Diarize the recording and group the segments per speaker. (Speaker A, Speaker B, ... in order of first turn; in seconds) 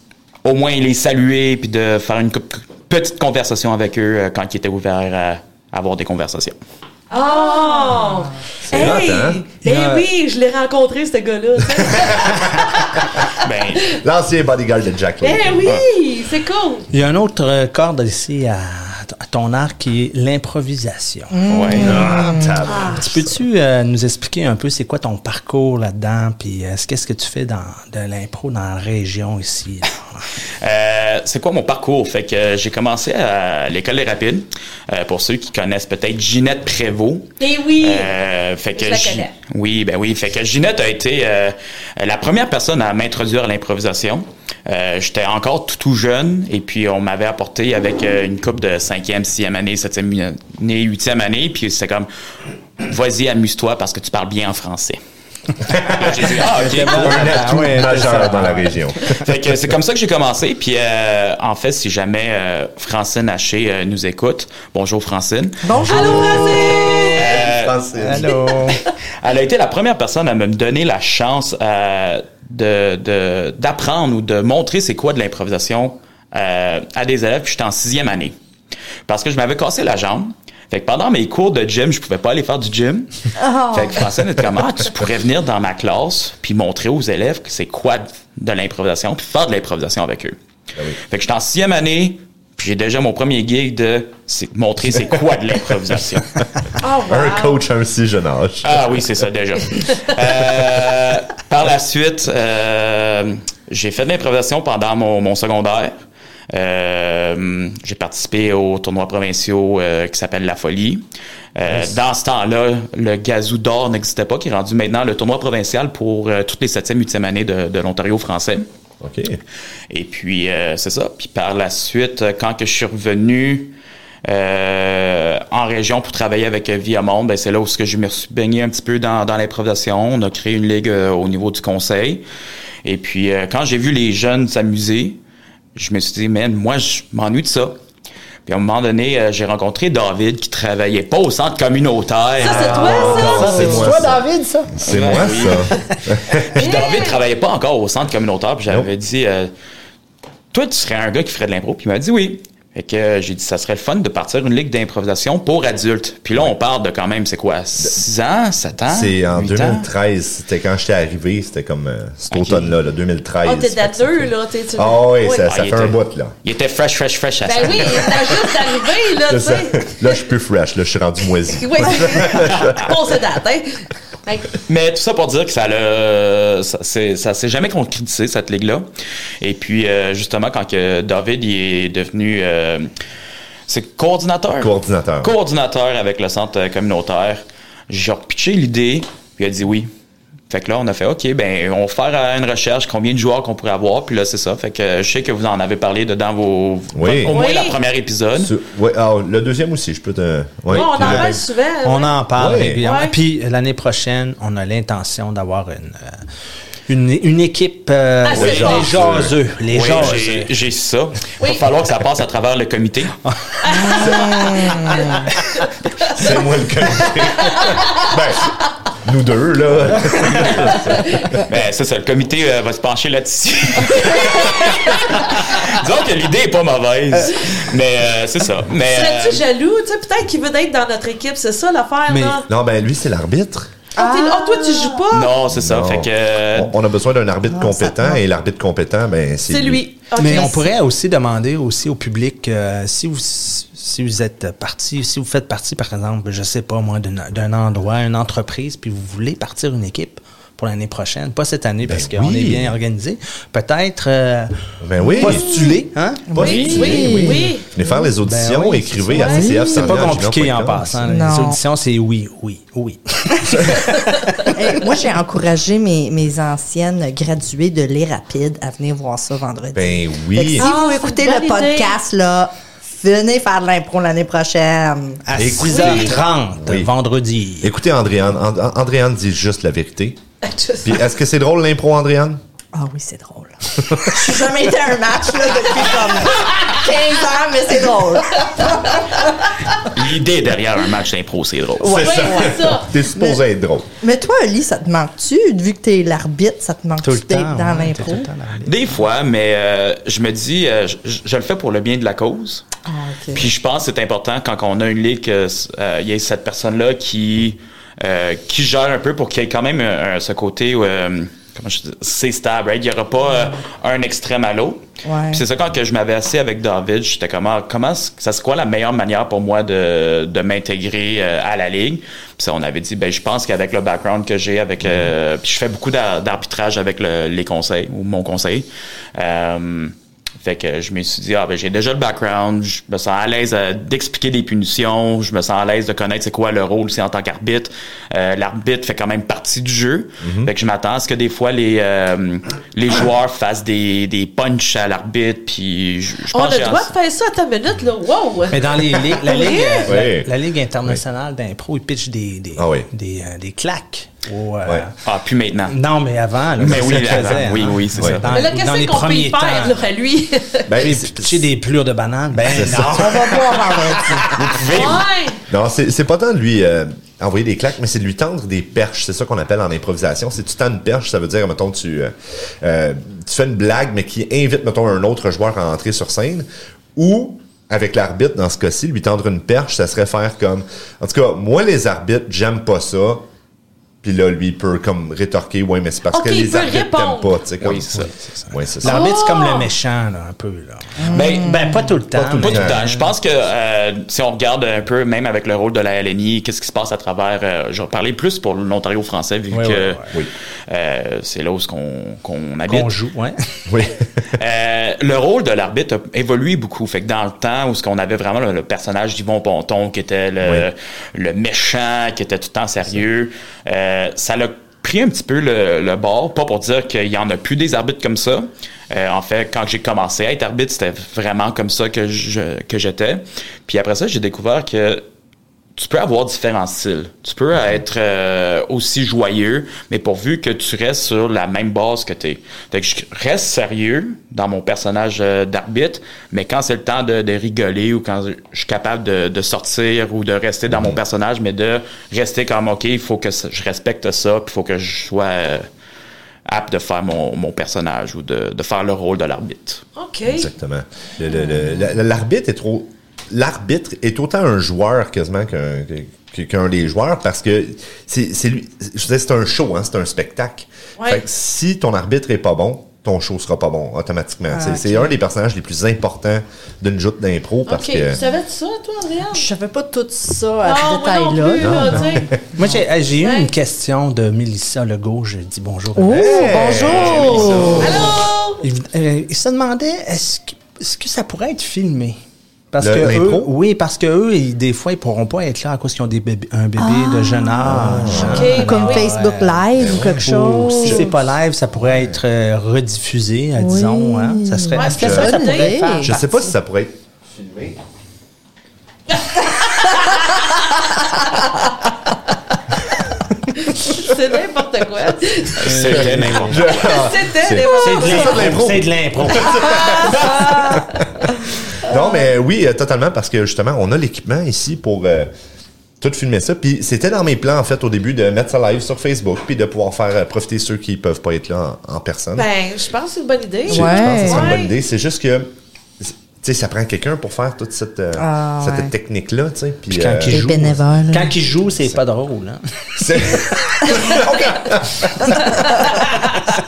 Speaker A: 0.4-6.6, 13.4-13.8, 21.5-22.1, 30.6-52.1, 52.8-55.0, 55.8-57.5, 59.1-65.7, 67.2-67.8, 69.2-78.3, 79.1-83.1, 83.6-90.4, 91.0-96.4, 98.6-105.9, 106.5-111.0, 111.5-118.7, 119.9-132.2, 132.8-135.2, 135.8-137.8, 138.5-143.3, 144.8-145.7, 146.4-149.5, 150.5-159.9, 162.3-162.8, 165.4-168.5, 172.5-172.9, 174.7-178.9, 179.4-182.9, 183.7-189.9, 190.5-198.6, 209.7-213.2, 221.4-229.4, 235.1-236.7, 289.9-292.2, 298.6-302.7, 303.3-346.9, 355.0-355.8, 356.6-358.3, 364.3-365.1, 387.6-388.1, 391.1-391.6, 392.2-400.2, 400.7-402.9, 404.4-425.0, 425.8-445.7, 446.5-449.9, 476.8-478.1, 505.6-506.8
Speaker B: 7.1-13.3, 15.2-16.9, 22.7-23.0, 37.4-38.1, 38.8-39.3, 65.9-67.4, 68.3-68.8, 96.8-97.6, 142.4-143.9, 146.6-147.2, 163.4-165.5, 167.4-170.2, 171.5-174.6, 197.3-197.8, 200.7-202.2, 202.8-203.2, 208.2-209.0, 213.6-216.3, 217.2-218.2, 220.7-221.4, 224.2-224.7, 228.8-232.5, 234.0-235.3, 239.5-240.7, 256.4-257.7, 259.2-259.5, 264.2-264.5, 270.6-272.0, 275.7-276.1, 280.4-281.0, 291.9-293.0, 346.3-349.9, 358.3-360.8, 364.6-365.4, 386.1-387.4, 388.8-389.7, 450.0-450.5, 461.0-461.2, 467.7-469.5, 470.6-472.3, 473.2-473.5, 477.8-478.6, 488.3-489.1, 494.7-495.9, 499.2-500.0, 503.6-505.8, 506.6-508.5, 509.5-510.8, 522.4-524.7
Speaker C: 7.4-7.9, 21.3-22.6, 65.6-67.1, 83.4-84.0, 213.7-215.3, 234.0-235.0, 237.5-238.2, 255.0-255.8, 256.3-258.1, 259.2-260.1, 261.1-261.6, 264.5-275.2, 282.8-289.5, 291.8-292.5, 293.1-293.4, 294.0-298.3, 302.9-303.5, 315.1-315.4, 362.8-364.3, 391.0-391.9, 464.5-465.1, 469.3-472.8, 476.0-478.1, 486.8-491.1, 493.6-496.3, 523.7-524.6, 528.2-528.9, 530.3-531.4, 533.9-534.2, 535.5-536.0
Speaker D: 8.7-9.4, 11.9-12.3, 13.9-15.8, 21.8-23.3, 55.7-56.3, 56.8-59.2, 66.5-68.3, 97.1-98.8, 111.7-112.0, 119.0-119.4, 142.8-146.7, 158.9-166.3, 169.3-172.9, 184.6-185.3, 196.9-197.4, 198.4-201.4, 202.4-202.8, 208.3-209.4, 216.1-221.4, 232.5-233.7, 235.5-239.8, 251.9-252.7, 254.8-255.7, 256.3-261.1, 269.7-270.7, 275.4-276.9, 277.6-280.2, 280.8-282.4, 283.9-284.2, 291.8-293.9, 340.2-340.5, 349.9-350.3, 352.6-352.9, 358.0-358.2, 360.7-361.5, 362.4-363.5, 365.5-383.2, 384.0-389.0, 392.2-392.8, 403.7-404.3, 440.7-441.0, 450.3-468.2, 471.6-472.3, 476.1-478.1, 482.8-483.5, 487.6-488.6, 489.8-490.3, 490.8-491.1, 491.8-492.2, 495.0-495.4, 496.0-497.8, 505.9-515.3, 516.0-522.5, 523.7-530.6, 533.0-535.9
Speaker E: 9.6-10.1, 16.9-21.4, 22.9-30.3, 56.5-58.8, 65.8-66.4, 68.0-68.8, 142.5-145.0, 200.9-201.3, 201.8-206.3, 206.9-210.5, 213.3-213.5, 232.1-232.4, 240.2-254.5, 255.2-257.3, 258.2-264.6, 275.2-277.7, 297.0-299.0, 348.5-355.0, 355.7-359.8, 360.8-364.3, 387.9-393.1, 399.5-400.1, 402.7-403.6, 472.6-476.8, 478.6-482.2, 482.7-496.1, 505.6-506.7, 507.7-509.8, 529.9-533.8